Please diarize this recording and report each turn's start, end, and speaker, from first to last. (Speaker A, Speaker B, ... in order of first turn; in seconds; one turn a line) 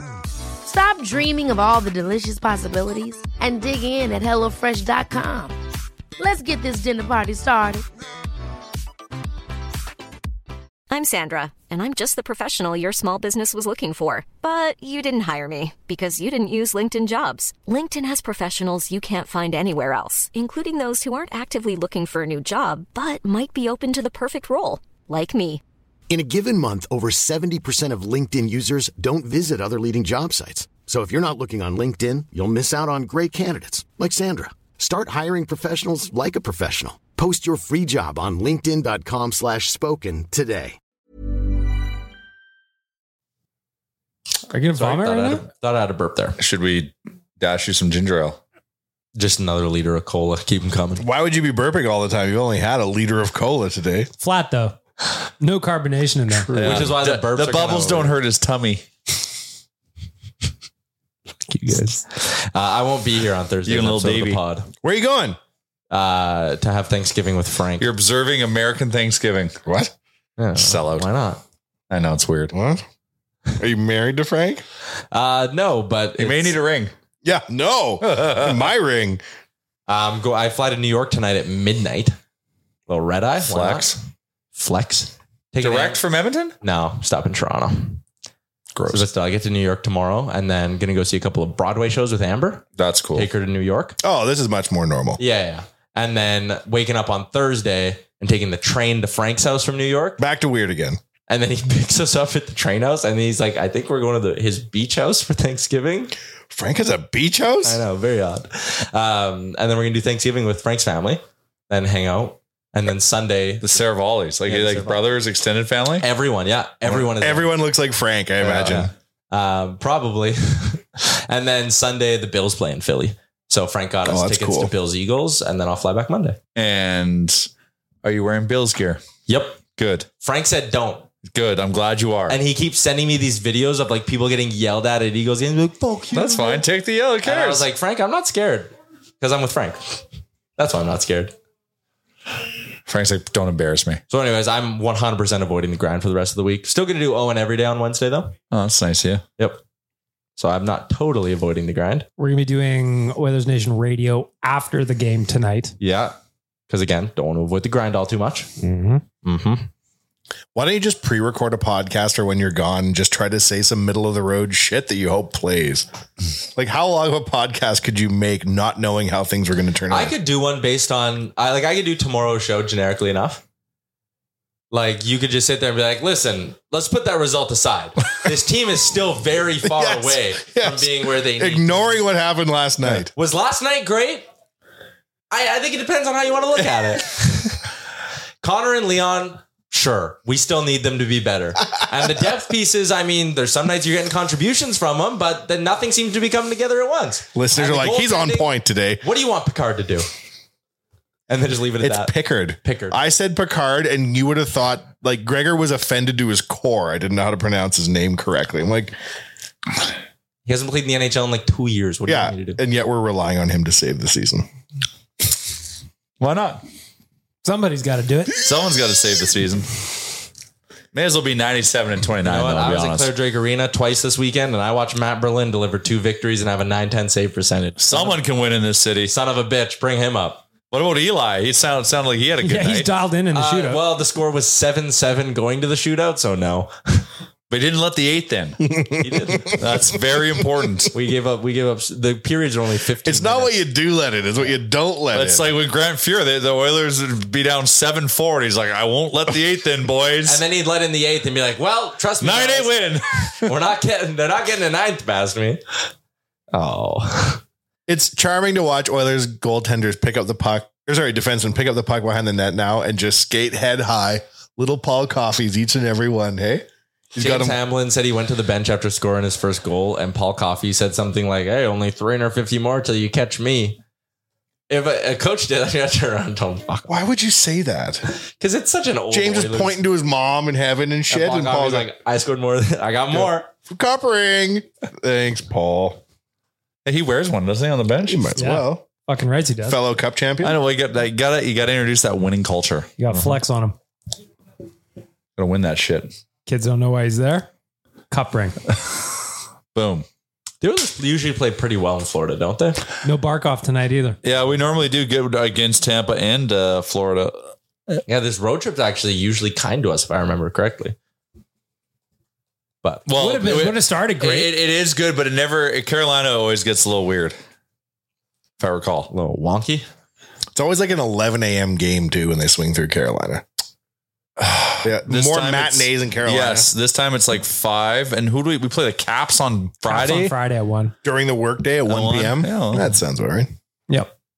Speaker A: 0.6-5.5
Speaker A: 6.2-7.8
Speaker B: 10.9-25.6
Speaker C: 26.1-40.8
Speaker D: 44.5-45.4
Speaker E: 44.7-46.4
Speaker F: 46.4-48.4
Speaker E: 49.1-51.0
Speaker G: 51.0-54.1
Speaker D: 54.2-54.8
Speaker D: 55.4-56.8
Speaker F: 56.5-58.8
Speaker E: 56.6-58.2
Speaker E: 61.5-64.7
Speaker F: 63.6-64.4
Speaker G: 64.8-65.4
Speaker E: 65.9-67.9
Speaker F: 67.8-69.6
Speaker G: 69.7-69.9
Speaker E: 70.4-71.4
Speaker F: 70.5-71.1
Speaker F: 71.9-72.5
Speaker G: 72.5-72.8
Speaker G: 73.6-74.6
Speaker E: 75.1-76.6
Speaker F: 76.2-76.9
Speaker G: 77.2-79.2
Speaker F: 78.0-78.7
Speaker E: 79.9-82.2
Speaker E: 82.9-84.0
Speaker F: 83.4-84.0
Speaker E: 84.5-86.0
Speaker F: 85.6-86.5
Speaker E: 86.6-88.0
Speaker E: 88.9-94.0
Speaker F: 92.8-93.3
Speaker G: 94.0-95.2
Speaker E: 95.2-100.2
Speaker G: 100.2-101.0
Speaker E: 101.3-106.1
Speaker G: 106.5-107.8
Speaker E: 107.6-113.8
Speaker F: 113.6-116.0
Speaker E: 114.4-115.0
Speaker E: 116.0-117.5
Speaker G: 116.9-118.9
Speaker E: 118.4-126.4
Speaker G: 124.0-124.7
Speaker F: 126.5-127.5
Speaker F: 128.0-129.0
Speaker E: 129.3-129.6
Speaker F: 129.7-130.1
Speaker E: 130.2-131.1
Speaker F: 131.2-132.4
Speaker E: 132.3-136.6
Speaker F: 136.1-137.6
Speaker E: 137.2-140.0
Speaker E: 140.6-141.3
Speaker F: 142.9-144.0
Speaker E: 144.1-148.3
Speaker F: 148.5-149.2
Speaker E: 150.4-152.1
Speaker D: 152.2-155.7
Speaker E: 155.8-156.2
Speaker E: 156.7-158.5
Speaker D: 158.6-159.0
Speaker E: 159.2-159.7
Speaker G: 160.5-165.8
Speaker G: 166.5-170.1
Speaker E: 169.9-173.4
Speaker E: 174.7-182.0
Speaker G: 179.7-183.1
Speaker E: 182.9-184.2
Speaker E: 185.3-187.7
Speaker E: 188.4-200.1
Speaker G: 197.3-199.0
Speaker E: 201.3-203.0
Speaker G: 201.8-208.9
Speaker E: 210.4-212.6
Speaker G: 212.1-214.4
Speaker F: 216.2-216.6
Speaker D: 217.4-218.3
Speaker F: 218.4-219.8
Speaker F: 220.9-223.1
Speaker E: 222.2-228.2
Speaker F: 227.8-229.1
Speaker E: 229.1-230.4
Speaker F: 230.7-232.9
Speaker D: 232.4-233.8
Speaker E: 233.3-237.1
Speaker F: 237.5-238.6
Speaker G: 238.7-239.6
Speaker E: 239.0-239.6
Speaker F: 239.6-240.9
Speaker E: 240.9-243.6
Speaker G: 243.0-245.5
Speaker F: 245.1-250.4
Speaker E: 250.2-252.8
Speaker F: 252.2-253.5
Speaker E: 253.4-255.6
Speaker E: 256.5-257.4
Speaker G: 257.9-267.6
Speaker E: 267.2-273.8
Speaker E: 274.7-276.9
Speaker G: 276.9-278.1
Speaker E: 278.4-279.8
Speaker G: 279.1-281.9
Speaker E: 281.1-283.5
Speaker G: 283.7-286.0
Speaker F: 286.8-288.3
Speaker G: 288.1-288.8
Speaker D: 288.4-289.8
Speaker G: 289.6-290.6
Speaker F: 290.4-293.3
Speaker D: 293.0-293.8
Speaker F: 295.4-296.1
Speaker D: 296.5-297.5
Speaker D: 298.1-298.6
Speaker F: 299.7-300.0
Speaker E: 300.6-302.8
Speaker D: 303.0-304.2
Speaker F: 304.2-308.0
Speaker E: 308.1-310.9
Speaker E: 312.8-313.1
Speaker F: 313.1-317.4
Speaker D: 313.1-314.5
Speaker F: 318.6-319.1
Speaker E: 319.1-319.9
Speaker G: 320.5-323.4
Speaker F: 324.4-330.3
Speaker G: 324.8-326.7
Speaker D: 329.9-330.9
Speaker G: 331.0-333.5
Speaker F: 331.9-332.9